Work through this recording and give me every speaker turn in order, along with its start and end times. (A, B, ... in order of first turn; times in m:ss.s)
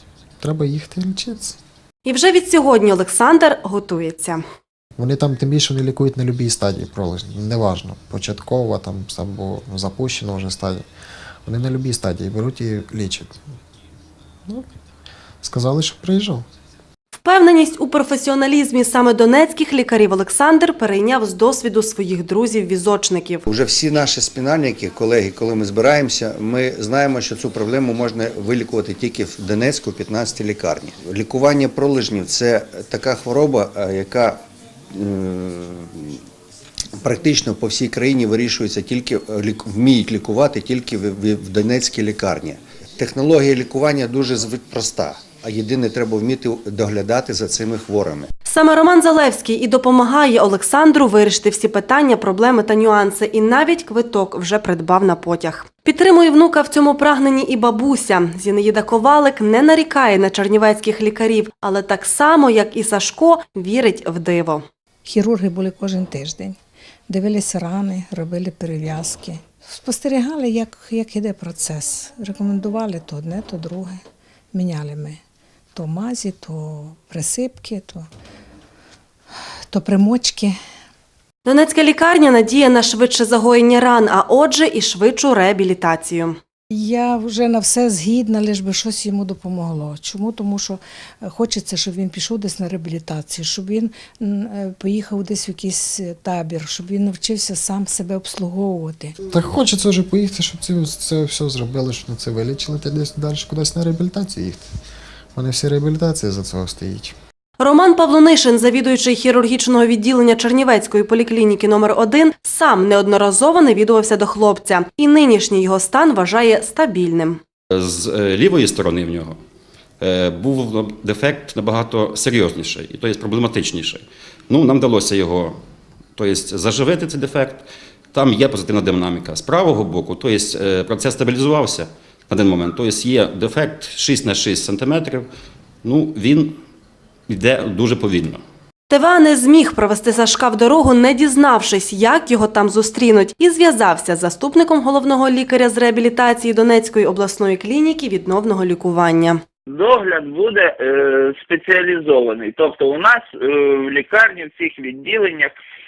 0:00.4-0:01.6 A
0:02.0-0:04.4 B
0:05.0-0:10.8 A
0:11.4-0:13.4 A
0:15.4-0:16.4 A
0:17.2-0:23.4 B
0:23.4-0:34.4 C
0:34.9-0:36.2 C
0:37.0-0:48.3 C
0:48.4-1:04.6 B
1:05.0-1:06.6 D
1:07.1-1:14.0 D
1:14.5-1:15.2 D
1:15.7-1:18.0 D
1:19.7-1:20.5 D
1:21.4-1:26.4 B
1:26.7-1:39.2 D
1:39.2-1:44.7 A
1:45.3-1:47.1 A
1:47.6-1:57.4 B
1:57.7-1:59.4 E
2:00.0-2:05.6 E
2:06.2-2:15.3 E
2:15.8-2:16.6 E
2:17.3-2:18.4 E
2:18.9-2:29.4 B
2:29.7-2:35.5 F